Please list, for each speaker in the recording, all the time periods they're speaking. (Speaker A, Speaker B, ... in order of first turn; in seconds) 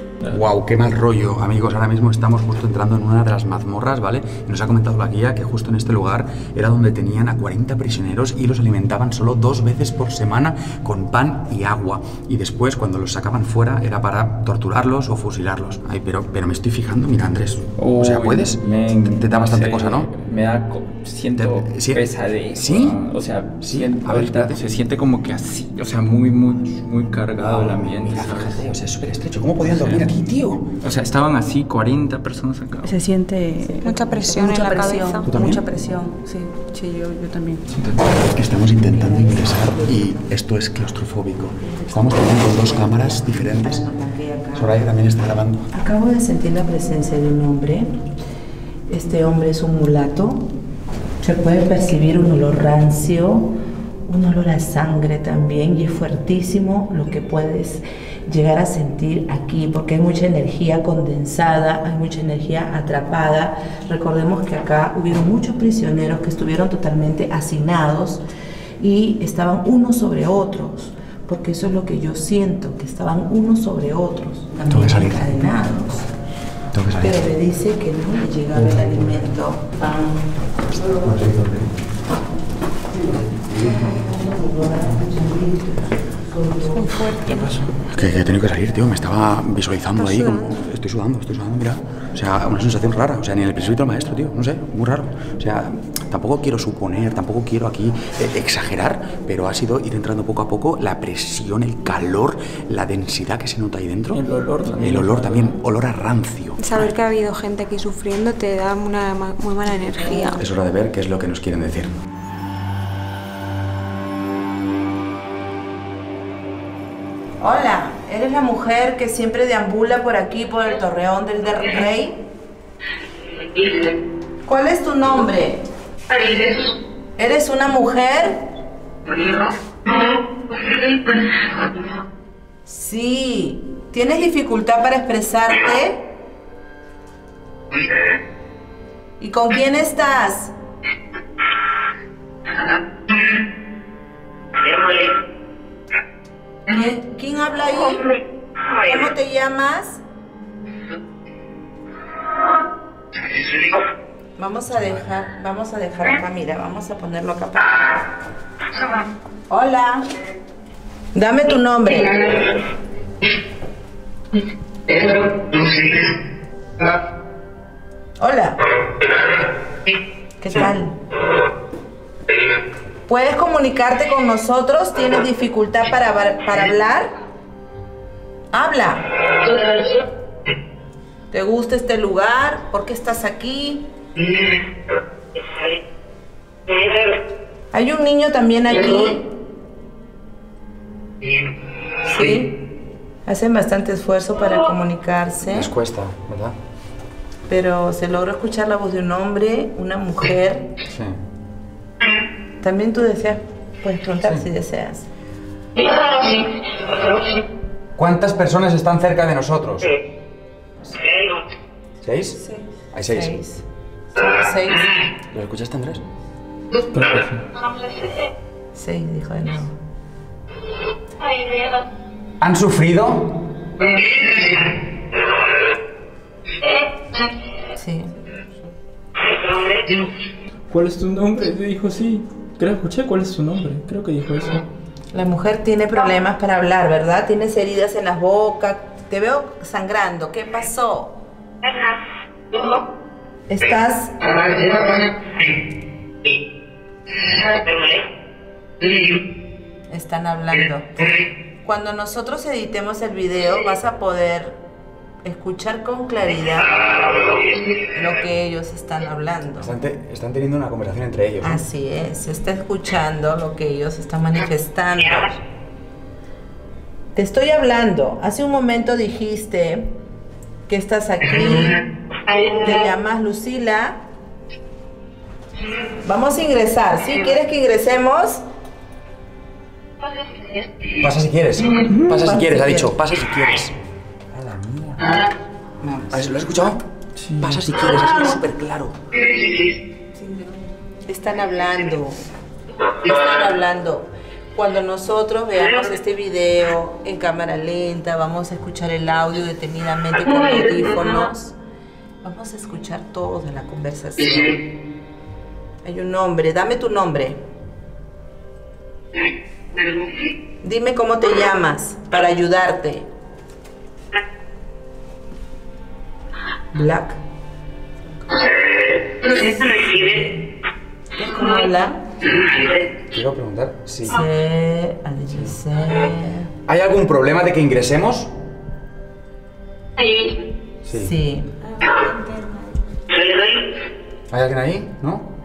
Speaker A: 0.2-20.1, 21.3-23.0, 23.6-24.6, 27.4-30.6, 35.2-35.6, 38.1-43.9, 44.5-45.7, 74.7-75.4, 76.7-77.2, 81.0-81.6, 87.8-104.2, 104.8-106.9, 110.3-111.9, 195.4-196.6, 200.9-201.2, 208.0-209.9, 212.0-212.4, 212.9-213.3, 215.3-216.0, 222.4-223.3, 259.6-261.6, 281.0-283.7, 284.3-285.2, 286.1-286.8, 287.4-288.9, 323.1-324.2, 326.7-328.3, 330.9-331.1, 334.3-335.3
Speaker B: 17.8-28.7, 29.6-30.2, 30.8-33.0, 37.7-38.3, 87.3-87.7, 104.1-105.5, 216.9-217.4, 230.7-234.7, 281.9-282.6, 287.2-287.6
Speaker C: 32.8-37.6
Speaker D: 33.8-35.3, 86.7-87.5, 89.9-90.6, 106.6-110.4, 331.6-332.8
Speaker E: 38.9-40.2, 41.6-44.8, 45.7-47.9, 48.9-50.5, 51.2-53.5, 54.0-68.2, 68.8-76.1, 77.0-80.3, 83.5-87.1, 117.4-122.2, 124.5-125.6, 127.2-128.4, 132.7-136.1, 139.2-140.5, 146.7-148.0, 148.8-150.0, 154.4-157.8, 159.5-160.1, 161.1-162.3, 168.2-168.6, 170.4-170.9, 173.1-177.1, 178.5-179.1, 181.3-183.9, 187.7-189.3, 192.0-192.6, 193.2-195.7, 197.5-200.7, 202.6-205.1, 213.1-213.6, 214.2-214.9, 218.7-219.7, 227.8-228.1, 235.1-241.2, 243.5-244.2, 249.9-250.9, 251.6-254.6, 255.2-256.9, 257.9-259.7, 261.4-265.4, 267.1-269.9, 270.7-271.8, 272.3-274.0, 276.0-278.4, 282.2-282.9, 285.8-286.2, 291.1-292.2, 293.0-301.5, 302.2-304.6, 305.8-307.4, 310.6-313.1, 316.7-317.2, 319.2-320.3, 321.2-322.0, 324.1-326.5, 330.9-331.5